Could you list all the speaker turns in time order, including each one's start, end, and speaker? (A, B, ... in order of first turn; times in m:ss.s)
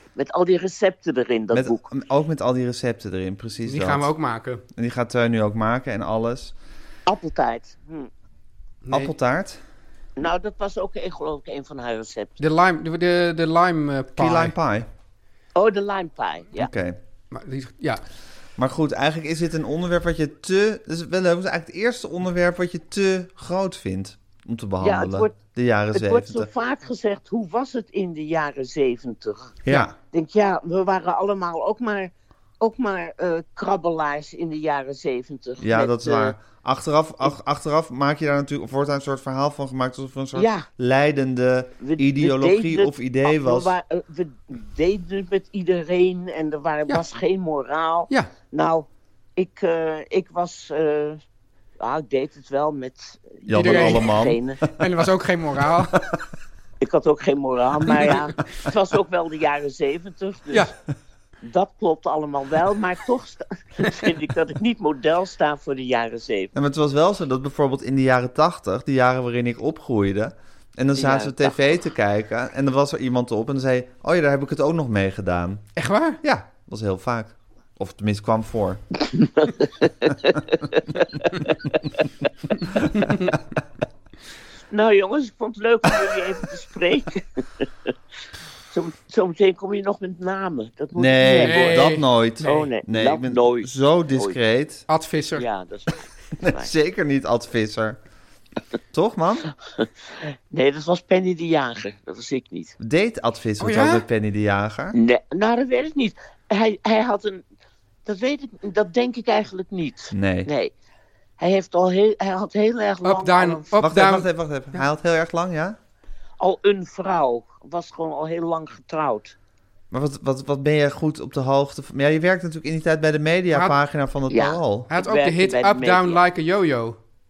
0:00.2-0:01.9 A
0:01.5-0:04.1 B
0:03.6-0:04.6 C
0:04.7-0:06.6 B
0:07.1-0:08.1 A
0:08.8-0:09.1 C
0:08.9-0:09.6 B
0:10.2-0:12.4 A
0:12.4-0:14.6 C
0:14.2-0:14.9 B
0:15.6-0:16.7 A
0:16.6-0:17.0 B
0:17.3-0:18.0 C
0:18.6-0:26.5 B
0:24.8-0:25.4 A
0:25.9-0:36.4 A
0:29.6-0:30.0 B
0:35.6-0:43.7 B
0:40.4-0:40.7 A
0:41.8-0:51.2 A
0:51.8-0:54.6 A
0:53.5-0:54.4 B
0:53.6-0:54.1 C
0:54.8-0:56.0 C
0:56.8-1:00.7 A
1:01.4-1:06.5 A
1:06.6-1:18.8 B
1:11.0-1:11.6 A
1:15.8-1:16.2 C
1:19.2-1:19.5 A
1:20.1-1:20.8 A
1:22.9-1:23.3 C
1:24.7-1:27.3 A
1:28.7-1:34.4 A
1:31.0-1:34.9 B
1:31.4-1:32.7 C
1:34.9-1:35.4 C
1:35.4-1:36.7 A
1:36.4-1:38.0 B
1:38.9-1:39.5 B
1:40.5-1:42.8 A
1:42.8-1:45.0 B
1:43.6-1:44.0 C
1:44.9-1:47.4 A
1:48.0-1:50.7 A
1:50.1-1:50.5 B
1:51.4-1:53.7 A
1:53.0-1:54.8 C
1:53.8-1:55.8 B
1:56.4-1:59.4 A
1:59.9-2:04.9 B
2:04.3-2:06.2 A
2:04.9-2:07.0 C